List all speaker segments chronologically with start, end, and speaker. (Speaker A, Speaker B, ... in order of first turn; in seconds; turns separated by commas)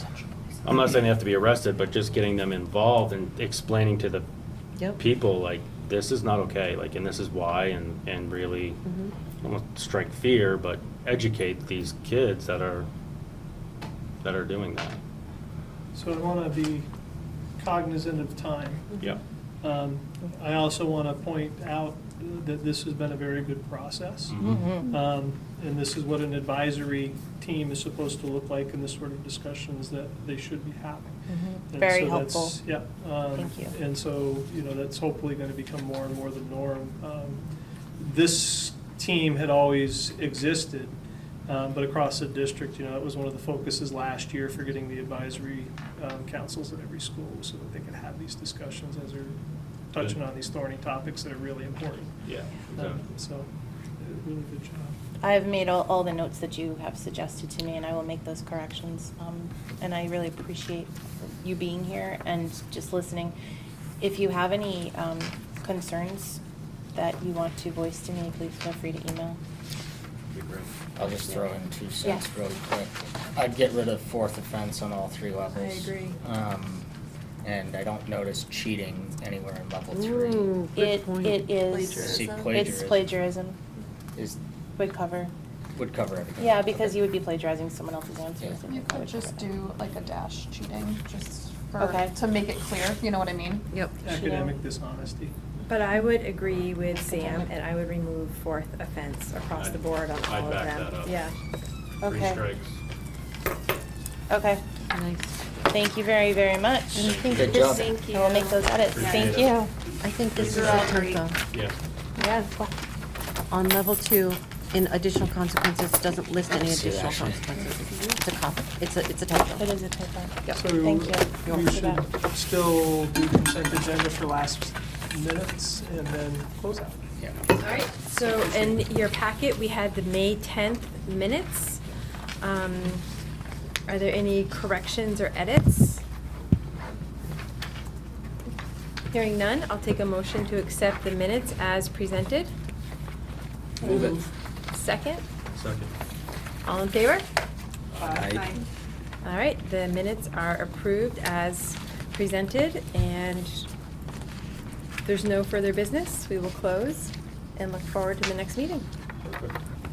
Speaker A: 0.7-4.3, Speaker A: 5.0-8.8, Speaker A: 9.4-12.9, Speaker A: 14.2-15.0, Speaker B: 15.9-16.9, Speaker B: 17.6-18.9, Speaker B: 19.6-31.2, Speaker A: 24.3-24.7, Speaker C: 24.4-24.9, Speaker C: 31.3-32.6, Speaker B: 31.7-37.4, Speaker C: 33.3-33.8, Speaker B: 38.0-49.4, Speaker B: 49.9-52.1, Speaker A: 52.2-53.0, Speaker B: 52.7-53.5, Speaker B: 54.0-54.9, Speaker C: 55.2-63.4, Speaker C: 64.0-66.4, Speaker C: 67.0-69.4, Speaker A: 70.3-70.7, Speaker D: 71.0-76.9, Speaker E: 75.6-76.1, Speaker D: 77.4-80.5, Speaker F: 79.9-82.0, Speaker C: 80.8-83.6, Speaker G: 81.7-82.4, Speaker D: 82.0-83.2, Speaker C: 84.8-85.3, Speaker D: 85.7-87.1, Speaker C: 86.4-89.5, Speaker G: 88.6-93.7, Speaker C: 91.8-92.2, Speaker B: 94.0-95.3, Speaker C: 94.1-94.5, Speaker E: 95.7-101.4, Speaker G: 97.0-97.5, Speaker A: 99.5-101.3, Speaker C: 102.0-102.4, Speaker A: 102.0-102.8, Speaker C: 104.3-104.6, Speaker F: 104.9-105.4, Speaker C: 105.7-107.2, Speaker F: 106.9-107.9, Speaker A: 107.0-107.8, Speaker D: 107.3-108.0, Speaker E: 107.4-109.3, Speaker C: 108.0-109.7, Speaker A: 108.9-109.7, Speaker F: 109.4-111.4, Speaker A: 110.3-110.9, Speaker E: 110.4-111.1, Speaker A: 111.5-111.8, Speaker F: 113.5-119.7, Speaker D: 116.5-117.5, Speaker C: 119.6-122.0, Speaker B: 120.5-127.0, Speaker F: 121.4-121.8, Speaker D: 127.2-127.4, Speaker E: 127.6-131.8, Speaker E: 132.4-133.0, Speaker E: 133.9-136.0, Speaker E: 139.1-142.5, Speaker A: 143.8-144.1, Speaker E: 143.8-144.2, Speaker E: 144.7-145.2, Speaker A: 145.5-145.9, Speaker E: 146.7-147.3, Speaker A: 147.9-148.5, Speaker E: 148.3-148.6, Speaker E: 149.2-153.7, Speaker E: 155.1-158.9, Speaker A: 159.2-159.6